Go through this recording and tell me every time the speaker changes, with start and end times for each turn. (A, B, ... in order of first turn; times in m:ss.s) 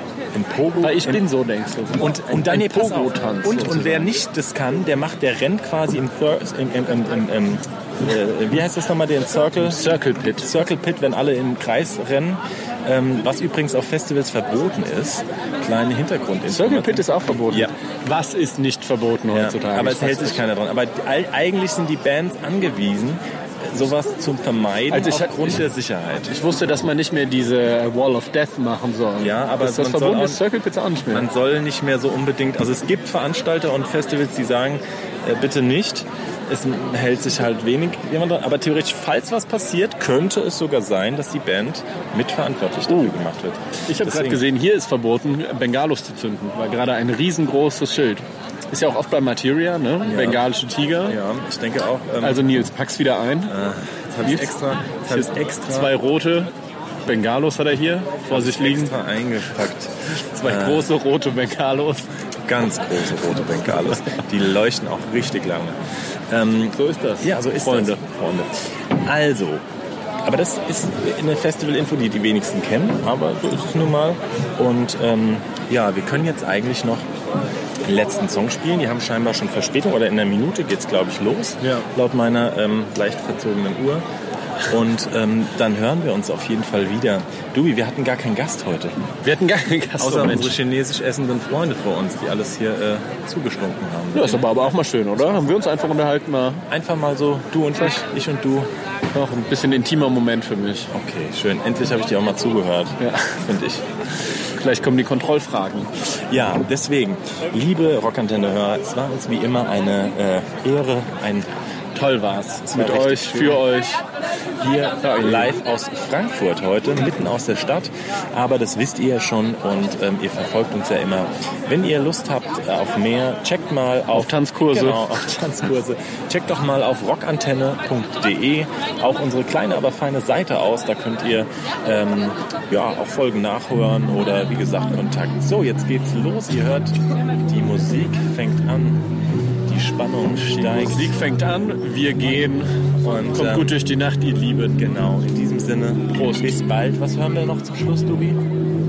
0:00.3-0:01.2 A
0:00.8-0:04.2 B
0:02.0-0:09.8 A
0:09.6-0:10.5 B
0:10.4-0:17.7 A
0:16.5-0:20.4 B
0:19.3-0:26.3 A
0:24.9-0:25.6 B
0:26.3-0:31.3 B
0:29.2-0:30.4 A
0:31.1-0:44.4 A
0:42.9-0:43.2 B
0:43.9-0:51.2 B
0:50.0-0:50.4 A
0:51.0-0:52.5 A
0:52.2-0:53.5 B
0:53.5-0:55.9 A
0:54.2-0:54.5 B
0:55.1-0:56.5 B
0:57.0-0:58.9 B
0:58.3-1:00.9 A
1:00.2-1:02.1 B
1:02.5-1:05.8 A
1:06.3-1:09.6 A
1:06.7-1:08.0 B
1:10.2-1:17.1 A
1:17.8-1:24.0 A
1:24.7-1:29.0 A
1:29.2-1:30.6 B
1:30.0-1:34.6 A
1:34.1-1:36.6 B
1:36.7-1:38.7 A
1:39.1-1:40.9 B
1:40.9-1:43.8 A
1:43.0-1:43.4 B
1:44.6-1:45.9 B
1:46.3-1:51.5 A
1:51.9-1:54.0 B
1:52.6-1:53.6 A
1:54.6-1:55.5 B
1:55.2-2:19.1 A
2:04.1-2:05.2 B
2:19.6-2:21.1 A
2:20.6-2:22.7 B
2:23.0-2:23.7 A
2:23.3-2:24.8 B
2:24.8-2:28.4 A
2:26.1-2:26.5 B